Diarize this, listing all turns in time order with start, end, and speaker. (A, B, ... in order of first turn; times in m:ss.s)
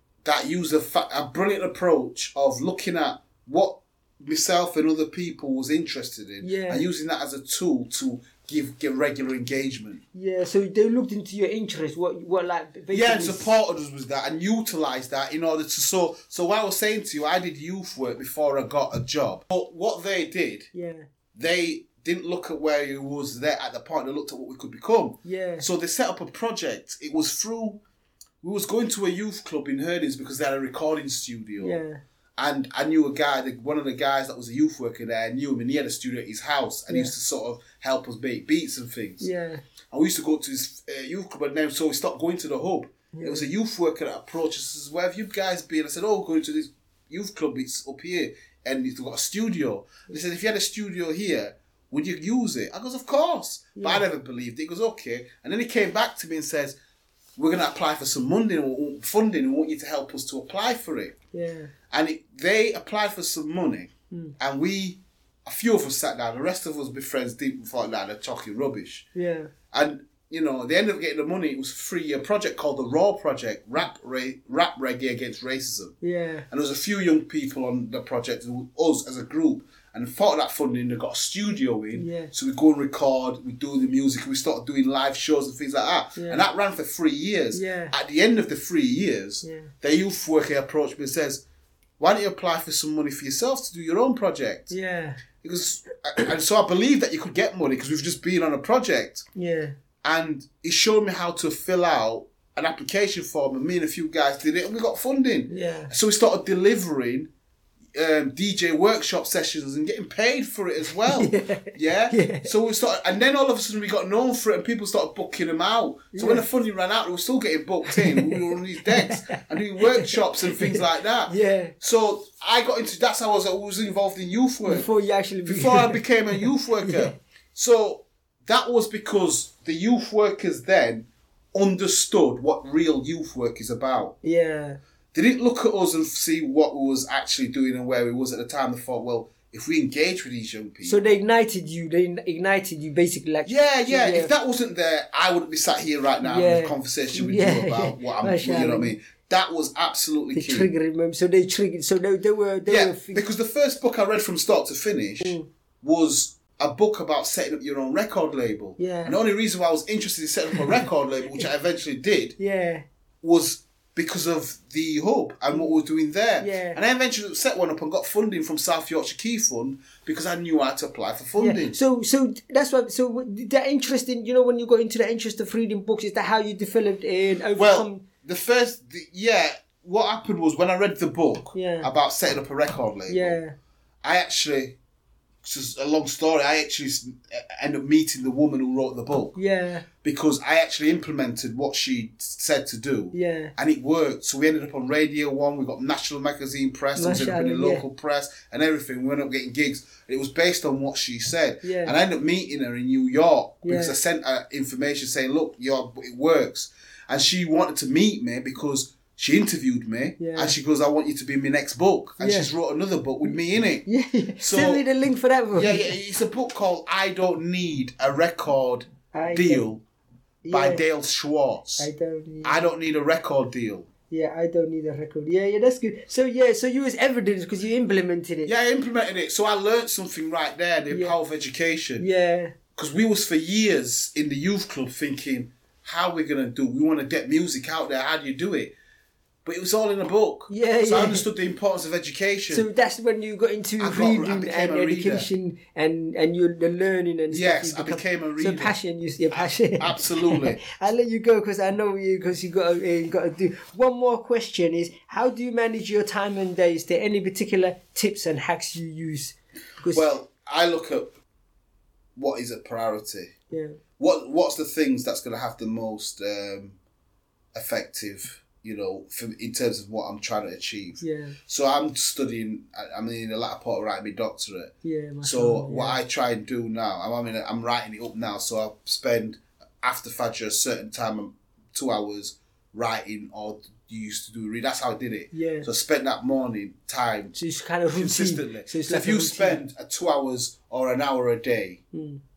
0:00.2-0:10.0 A
0:06.4-0:06.8 B
0:10.1-0:13.5 B
0:12.9-0:20.7 A
0:20.7-0:21.1 B
0:21.4-0:27.8 A
0:25.2-0:25.7 B
0:28.4-0:31.8 A
0:31.6-0:32.0 B
0:32.4-0:39.3 A
0:39.2-0:39.6 B
0:39.9-0:56.8 A
0:43.1-0:43.5 B
0:53.8-0:54.0 B
0:57.4-1:01.2 A
1:01.3-1:01.7 B
1:01.9-1:09.1 A
1:09.2-1:09.5 B
1:09.7-1:16.0 A
1:16.0-1:16.5 B
1:16.5-1:31.4 A
1:22.0-1:22.3 B
1:26.2-1:26.4 B
1:27.5-1:27.9 B
1:29.4-1:29.7 B
1:32.0-1:34.7 A
1:34.7-1:35.2 B
1:35.4-1:39.3 A
1:39.4-1:39.8 B
1:40.0-1:47.3 A
1:45.5-1:45.9 B
1:47.9-2:04.9 A
1:51.1-1:52.5 B
1:56.1-1:56.4 B
1:57.9-2:01.7 B
2:04.7-2:07.2 B
2:05.5-2:14.2 A
2:14.2-2:14.8 B
2:15.1-2:21.1 A
2:20.8-2:24.3 B
2:23.5-2:30.7 A
2:26.2-2:28.9 B
2:30.4-2:33.2 B
2:32.7-2:42.4 A
2:35.2-2:35.5 B
2:38.8-2:39.2 B
2:42.4-2:42.8 B
2:43.2-2:51.8 A
2:46.4-2:46.8 B
2:51.4-2:58.0 B
2:57.6-3:03.4 A
3:01.6-3:01.9 B
3:03.1-3:03.6 B
3:04.0-3:04.8 A
3:05.4-3:09.4 A
3:09.4-3:09.9 B
3:10.0-3:33.9 A
3:13.1-3:13.5 B
3:17.0-3:17.8 B
3:21.6-3:22.0 B
3:23.6-3:24.0 B
3:30.2-3:30.5 B
3:32.2-3:32.5 B
3:33.9-3:36.0 B
3:34.4-3:34.8 A
3:35.5-3:39.8 A
3:39.1-3:39.6 B
3:40.4-3:40.8 B
3:40.5-3:41.9 A
3:41.8-3:42.6 B
3:42.4-3:43.9 A
3:44.1-3:48.5 B
3:48.4-3:52.0 A
3:50.9-3:51.2 B
3:52.0-3:52.6 B
3:52.8-3:58.8 A
3:59.4-4:02.6 A
4:00.5-4:01.3 B
4:02.5-4:20.0 B
4:03.8-4:05.3 A
4:07.3-4:08.8 A
4:09.3-4:10.6 A
4:19.9-4:21.2 A
4:22.2-4:23.3 A
4:23.5-4:23.8 B
4:24.0-4:26.8 A
4:27.5-4:47.4 A
4:31.0-4:31.4 B
4:34.8-4:36.0 B
4:45.3-4:45.7 B
4:47.4-4:49.6 B
4:47.9-4:51.8 A
4:51.9-4:52.2 B